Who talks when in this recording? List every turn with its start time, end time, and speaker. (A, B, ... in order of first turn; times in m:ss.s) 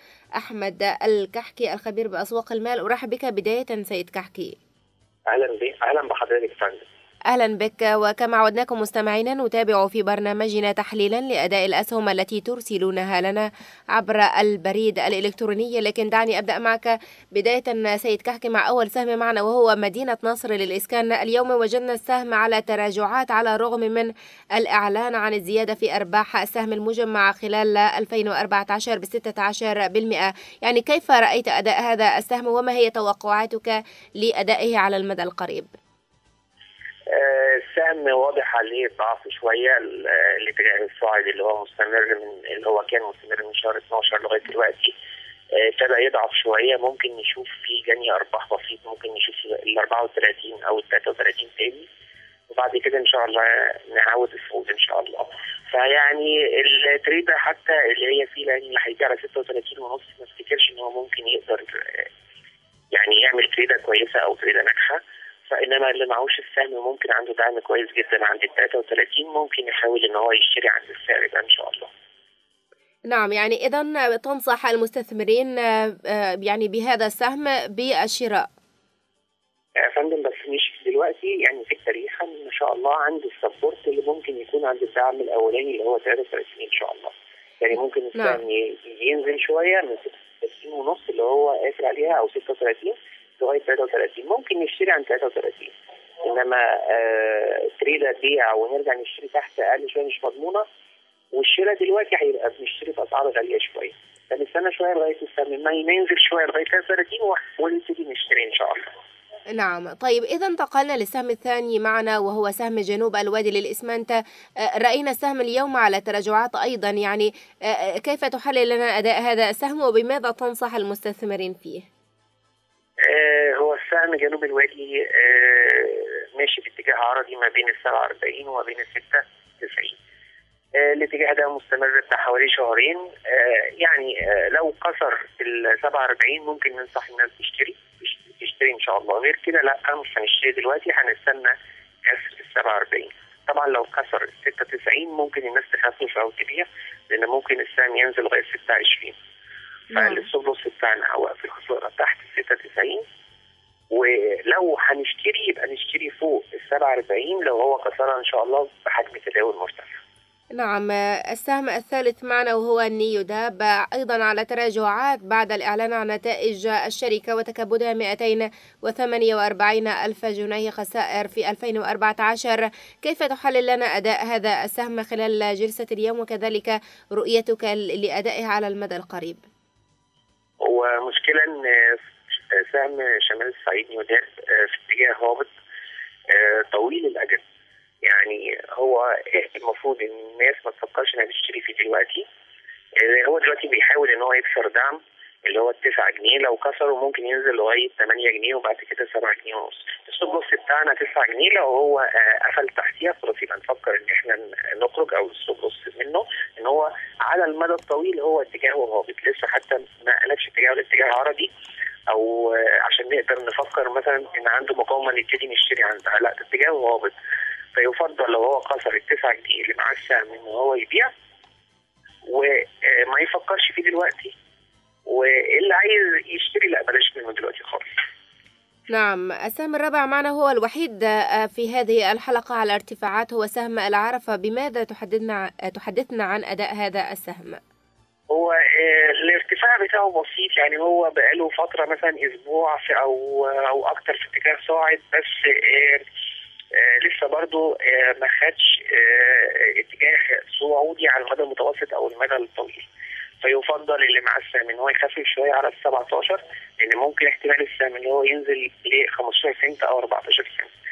0:00.4-0:04.6 A
0:05.3-0:06.8 B
0:07.3-0:35.7 A
0:37.1-0:44.9 B
0:45.6-0:51.9 B
0:52.5-1:02.1 B
1:02.9-1:11.9 B
1:13.1-1:18.5 A
1:19.8-1:40.6 B
1:28.1-1:28.4 A
1:41.3-1:48.9 B
1:49.6-1:54.2 A
1:54.8-2:01.9 A
2:03.0-2:09.9 B
2:10.8-2:21.5 B
2:22.1-2:29.2 B
2:29.9-2:30.2 A
2:30.2-2:33.0 B
2:33.9-2:40.0 B
2:40.5-2:59.4 A
3:00.6-3:02.0 B
3:02.5-3:05.5 B
3:06.3-3:07.4 B
3:08.0-3:12.2 B
3:13.0-3:31.5 B
3:32.1-3:37.1 B
3:37.8-3:41.1 B
3:42.3-3:44.3 B
3:45.1-3:47.9 B
3:48.9-3:57.6 A
3:58.3-4:06.0 B
4:06.7-4:12.8 B
4:13.4-4:20.7 B